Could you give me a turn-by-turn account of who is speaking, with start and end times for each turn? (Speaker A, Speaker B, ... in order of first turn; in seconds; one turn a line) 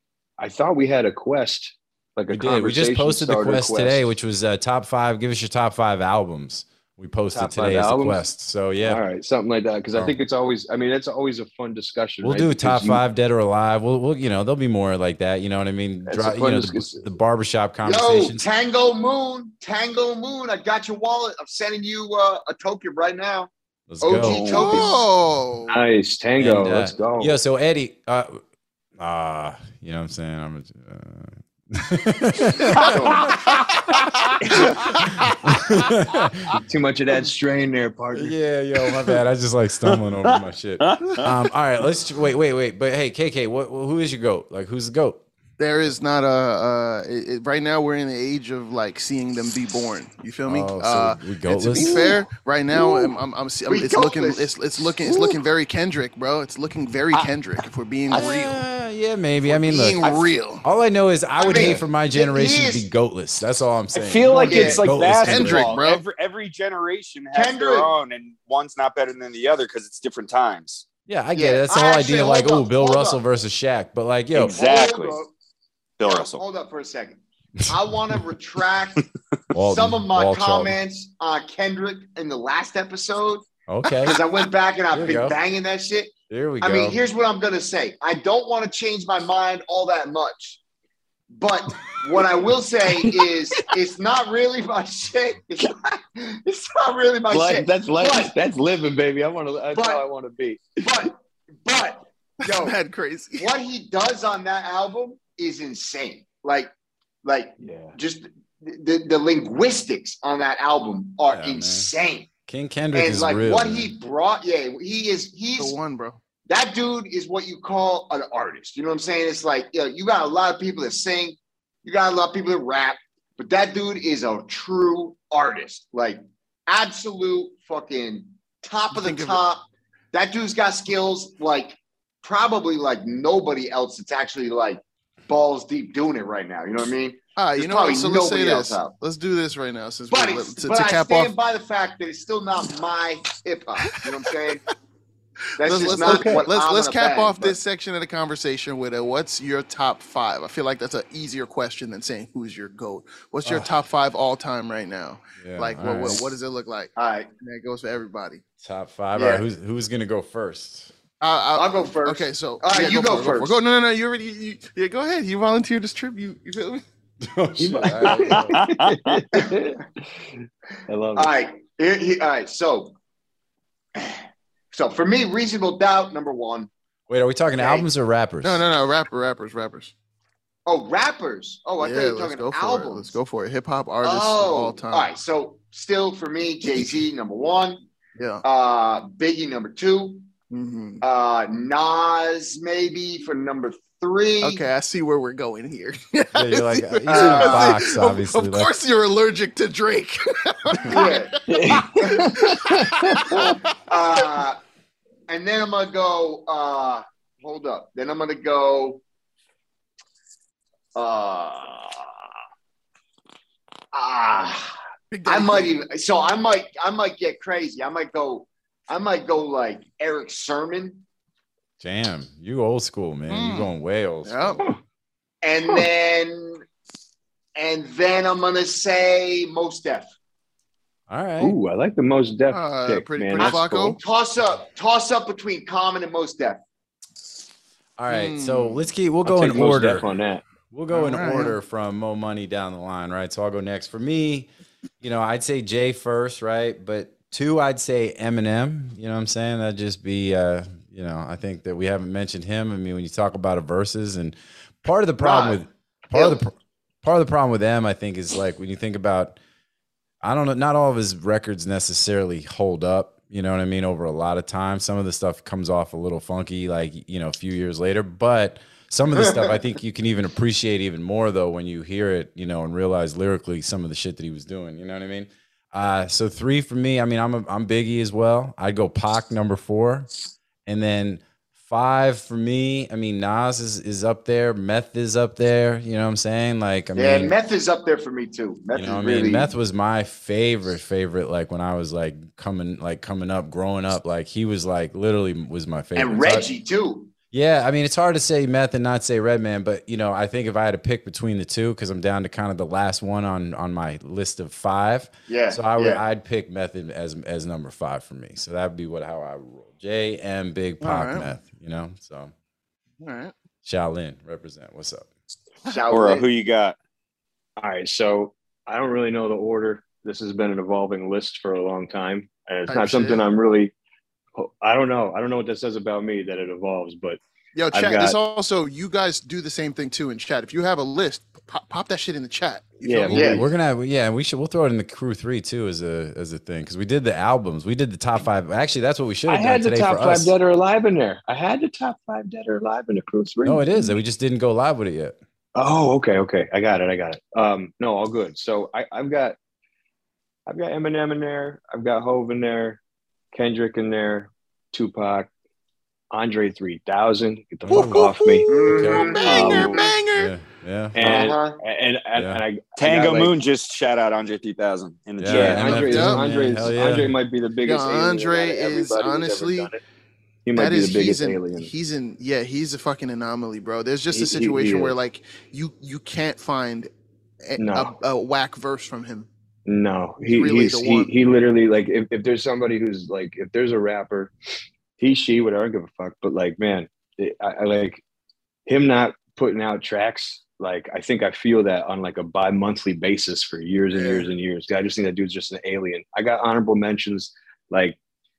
Speaker A: 0.4-4.0
Speaker B: 2.3-9.0
Speaker A: 7.3-8.2
Speaker A: 8.8-13.0
Speaker B: 12.2-18.4
Speaker A: 16.1-17.1
Speaker C: 17.8-23.5
Speaker B: 23.9-24.7
Speaker C: 24.0-25.0
Speaker D: 24.2-24.6
Speaker E: 24.4-25.8
Speaker A: 25.7-27.3
Speaker B: 26.4-28.4
Speaker B: 29.0-36.6
Speaker C: 32.8-33.4
Speaker A: 34.4-34.8
Speaker E: 34.5-35.2
Speaker A: 36.6-38.4
Speaker B: 38.1-45.2
Speaker D: 40.3-41.3
Speaker E: 45.6-58.6
Speaker B: 50.5-52.1
Speaker C: 53.7-54.5
Speaker B: 58.1-60.0
Speaker E: 59.5-60.6
Speaker B: 60.6-65.7
Speaker C: 61.4-62.9
Speaker D: 63.9-70.8
Speaker C: 64.5-64.8
Speaker E: 65.2-66.0
Speaker C: 67.3-67.9
Speaker B: 71.1-74.6
Speaker C: 71.3-73.2
Speaker D: 74.3-75.2
Speaker C: 74.4-75.3
Speaker D: 76.0-76.4
Speaker C: 76.0-79.0
Speaker B: 79.5-80.8
Speaker C: 79.6-90.6
Speaker B: 83.7-84.2
Speaker B: 84.9-85.4
Speaker B: 86.3-87.0
Speaker C: 91.3-98.3
Speaker A: 93.0-93.3
Speaker A: 97.3-101.1
Speaker C: 99.7-100.0
Speaker C: 100.8-102.8
Speaker E: 102.4-103.5
Speaker C: 103.4-106.7
Speaker C: 107.2-112.3
Speaker A: 107.6-108.0
Speaker B: 111.3-111.9
Speaker B: 112.5-113.9
Speaker C: 112.9-115.8
Speaker E: 115.6-116.2
Speaker C: 116.5-138.9
Speaker E: 128.9-129.4
Speaker E: 137.4-141.3
Speaker C: 140.1-144.6
Speaker E: 143.9-144.5
Speaker C: 145.6-147.6
Speaker E: 145.6-158.4
Speaker A: 145.7-146.5
Speaker B: 153.4-153.7
Speaker B: 155.4-156.3
Speaker C: 157.0-157.3
Speaker B: 158.6-160.9
Speaker C: 159.2-159.4
Speaker E: 161.2-166.8
Speaker C: 161.6-163.6
Speaker B: 167.2-168.6
Speaker A: 167.6-171.3
Speaker D: 168.3-169.2
Speaker C: 171.2-172.9
Speaker C: 174.7-176.7
Speaker B: 177.1-178.6
Speaker C: 177.6-177.9
Speaker E: 178.4-179.9
Speaker C: 180.7-183.2
Speaker E: 181.8-185.1
Speaker C: 184.0-187.8
Speaker E: 188.2-188.4
Speaker C: 188.4-190.2
Speaker E: 190.5-191.0
Speaker C: 191.0-194.6
Speaker E: 194.4-204.3
Speaker B: 196.4-198.7
Speaker C: 197.1-197.8
Speaker C: 200.9-201.3
Speaker A: 201.5-203.5
Speaker C: 202.0-202.4
Speaker C: 203.3-204.6
Speaker C: 205.3-209.0
Speaker C: 210.9-212.1
Speaker C: 213.9-221.0
Speaker E: 215.1-215.7
Speaker B: 221.8-224.7
Speaker E: 223.3-223.7
Speaker E: 224.2-224.7
Speaker C: 225.4-226.6
Speaker C: 227.6-230.1
Speaker B: 231.1-231.6
Speaker A: 231.4-234.0
Speaker E: 232.5-234.0
Speaker C: 233.3-236.6
Speaker B: 238.0-240.1
Speaker E: 238.1-238.8
Speaker A: 239.2-240.4
Speaker B: 240.7-244.5
Speaker E: 240.9-241.6
Speaker B: 245.0-259.4
Speaker C: 255.2-255.6
Speaker C: 256.1-256.4
Speaker B: 260.2-280.1
Speaker B: 280.7-287.3
Speaker C: 287.0-289.5
Speaker B: 288.7-296.4
Speaker C: 296.0-297.1
Speaker B: 297.3-312.3
Speaker C: 305.3-306.0
Speaker E: 310.8-311.3
Speaker E: 313.0-313.3
Speaker B: 313.6-315.1
Speaker C: 315.6-316.3
Speaker D: 315.9-316.8
Speaker A: 317.6-323.7
Speaker E: 322.7-323.2
Speaker A: 324.4-327.2
Speaker E: 327.6-333.4
Speaker A: 327.7-328.2
Speaker A: 332.8-333.5
Speaker B: 333.1-340.4
Speaker C: 333.1-333.4
Speaker A: 339.3-344.0
Speaker B: 343.4-345.2
Speaker A: 345.6-349.4
Speaker A: 350.5-352.8
Speaker A: 353.3-355.3
Speaker A: 356.1-359.9
Speaker B: 357.6-358.1
Speaker E: 357.7-360.3
Speaker C: 358.5-359.9
Speaker B: 358.7-361.2
Speaker A: 360.9-363.3
Speaker C: 361.0-361.6
Speaker B: 362.1-362.4
Speaker D: 362.8-365.9
Speaker B: 365.2-367.1
Speaker A: 365.3-369.8
Speaker E: 365.7-366.8
Speaker E: 367.6-369.8
Speaker A: 370.5-371.7
Speaker E: 370.5-376.9
Speaker A: 374.1-375.0
Speaker E: 377.4-379.3
Speaker A: 377.6-377.9
Speaker A: 379.7-384.3
Speaker E: 380.2-381.1
Speaker A: 385.0-388.0
Speaker A: 388.7-398.0
Speaker E: 393.9-394.3